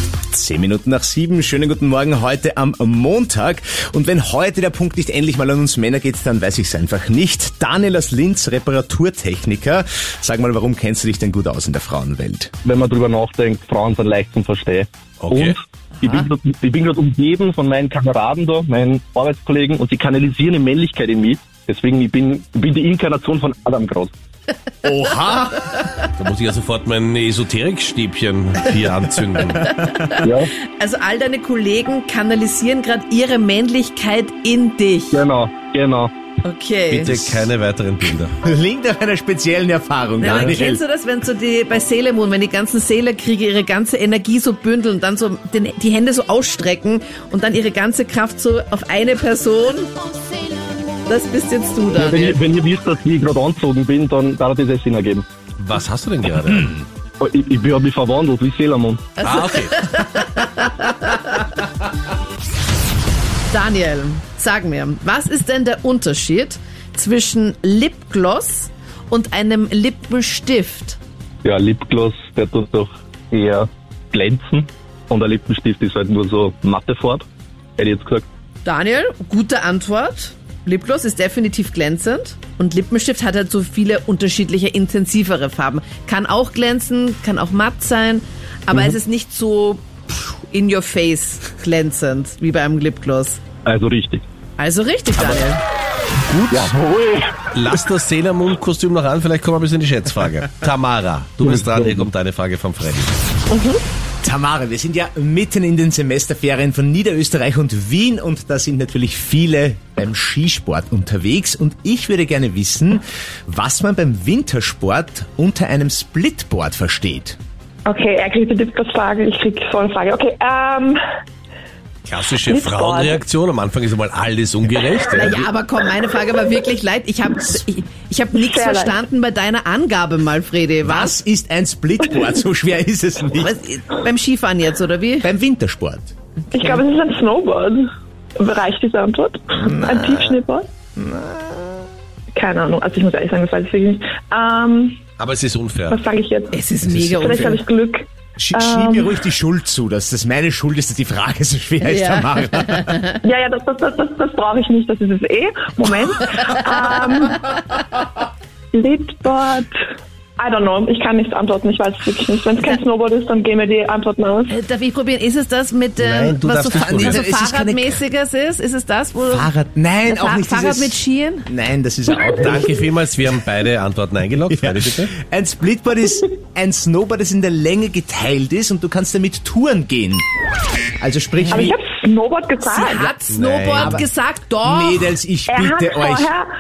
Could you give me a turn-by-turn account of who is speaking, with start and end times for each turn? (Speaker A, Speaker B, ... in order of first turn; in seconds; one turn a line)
Speaker A: 0.3-12.5
Speaker B: 12.6-24.1
Speaker C: 15.2-15.6
Speaker A: 24.8-25.8
Speaker C: 26.2-29.6
Speaker A: 29.6-30.1
Speaker D: 29.6-35.2
Speaker B: 30.2-30.5
Speaker B: 35.1-36.1
Speaker D: 36.4-37.1
Speaker C: 36.9-38.4
Speaker A: 37.0-37.5
Speaker A: 38.4-40.8
Speaker D: 40.2-49.9
Speaker C: 40.3-40.5
Speaker D: 51.1-52.4
Speaker B: 52.0-55.3
Speaker C: 55.6-56.8
Speaker B: 57.2-59.1
Speaker D: 59.2-61.5
Speaker C: 59.2-59.8
Speaker D: 63.5-71.0
Speaker B: 71.4-77.3
Speaker B: 77.8-78.3
Speaker D: 78.7-93.4
Speaker B: 93.7-94.2
Speaker D: 94.6-95.6
Speaker C: 96.3-96.7
Speaker B: 96.5-97.5
Speaker C: 97.5-103.2
Speaker B: 101.4-102.1
Speaker E: 103.5-103.8
Speaker A: 104.2-117.4
Speaker E: 117.9-121.0
Speaker C: 122.1-125.5
Speaker E: 122.5-123.2
Speaker D: 125.2-131.2
Speaker E: 128.4-129.0
Speaker A: 130.8-133.6
Speaker D: 133.4-135.3
Speaker A: 135.2-136.1
Speaker D: 136.5-136.8
Speaker E: 136.5-140.7
Speaker A: 139.6-140.4
Speaker A: 141.0-141.8
Speaker E: 142.3-145.0
Speaker C: 145.2-146.0
Speaker E: 145.9-146.6
Speaker D: 146.5-147.6
Speaker A: 146.8-147.6
Speaker E: 147.2-149.2
Speaker A: 148.4-153.0
Speaker D: 151.8-153.2
Speaker E: 153.2-157.6
Speaker E: 158.7-159.8
Speaker E: 160.4-164.6
Speaker D: 164.5-169.5
Speaker C: 166.0-167.2
Speaker A: 166.7-168.0
Speaker A: 169.2-172.8
Speaker D: 170.1-171.5
Speaker C: 172.4-175.1
Speaker A: 174.5-180.2
Speaker A: 181.0-181.8
Speaker D: 181.4-181.7
Speaker E: 181.5-183.1
Speaker D: 182.6-185.2
Speaker C: 183.3-184.0
Speaker A: 183.8-184.1
Speaker A: 184.6-186.3
Speaker E: 185.5-186.5